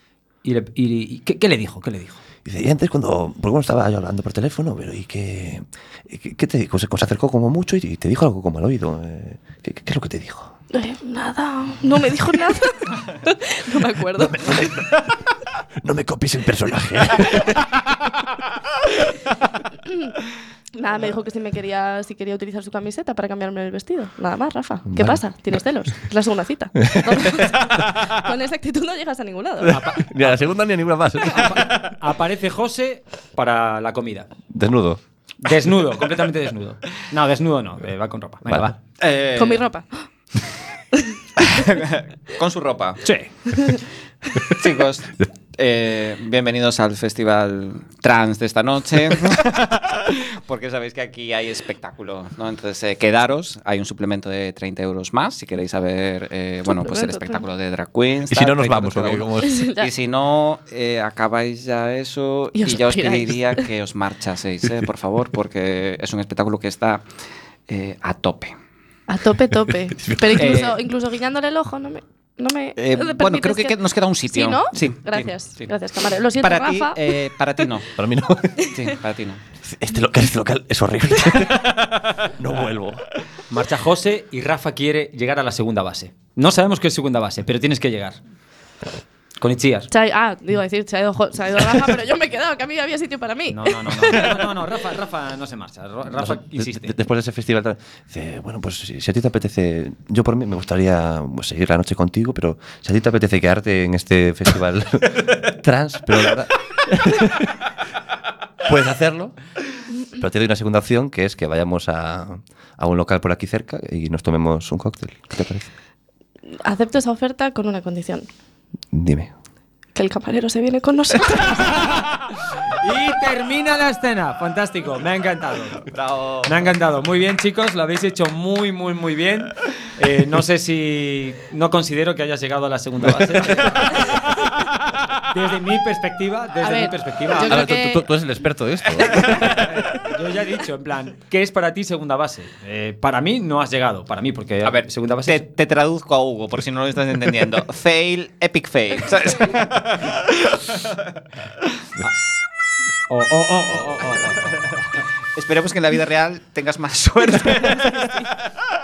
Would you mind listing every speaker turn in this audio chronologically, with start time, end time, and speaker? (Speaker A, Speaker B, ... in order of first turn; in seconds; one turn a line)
Speaker A: 0.4-2.2
Speaker B: 2.5-10.5
Speaker C: 10.7-14.5
Speaker B: 14.2-15.1
Speaker B: 15.8-17.9
Speaker C: 20.8-29.8
Speaker B: 24.9-25.2
Speaker B: 26.8-27.4
Speaker B: 29.7-31.7
Speaker A: 29.7-30.5
Speaker A: 31.2-34.3
Speaker B: 34.5-35.0
Speaker A: 35.4-38.8
Speaker B: 38.5-38.8
Speaker D: 39.0-39.6
Speaker C: 39.4-39.9
Speaker D: 41.4-43.0
Speaker A: 43.0-43.3
Speaker D: 44.5-67.1
Speaker C: 56.7-57.4
Speaker B: 58.3-59.6
Speaker C: 59.5-59.9
Speaker C: 62.6-63.6
Speaker D: 67.7-68.5
Speaker C: 69.1-73.7
Speaker B: 70.0-70.6
Speaker D: 70.3-70.8
Speaker D: 72.8-75.7
Speaker C: 74.3-77.1
Speaker D: 76.4-77.9
Speaker B: 78.0-78.8
Speaker D: 78.7-79.4
Speaker B: 79.6-83.0
Speaker A: 83.5-88.2
Speaker A: 89.4-89.9
Speaker C: 89.9-94.4
Speaker A: 93.5-97.0
Speaker B: 96.2-107.5
Speaker B: 108.6-109.3
Speaker B: 110.2-115.7
Speaker C: 116.6-118.3
Speaker B: 118.9-119.3
Speaker C: 120.0-121.9
Speaker A: 121.7-125.9
Speaker D: 126.0-126.4
Speaker A: 126.5-134.2
Speaker A: 135.3-137.7
Speaker C: 136.6-138.1
Speaker B: 137.4-139.7
Speaker C: 139.1-139.4
Speaker A: 139.4-145.4
Speaker D: 144.6-151.0
Speaker A: 153.1-154.7
Speaker D: 155.3-158.3
Speaker C: 157.8-158.3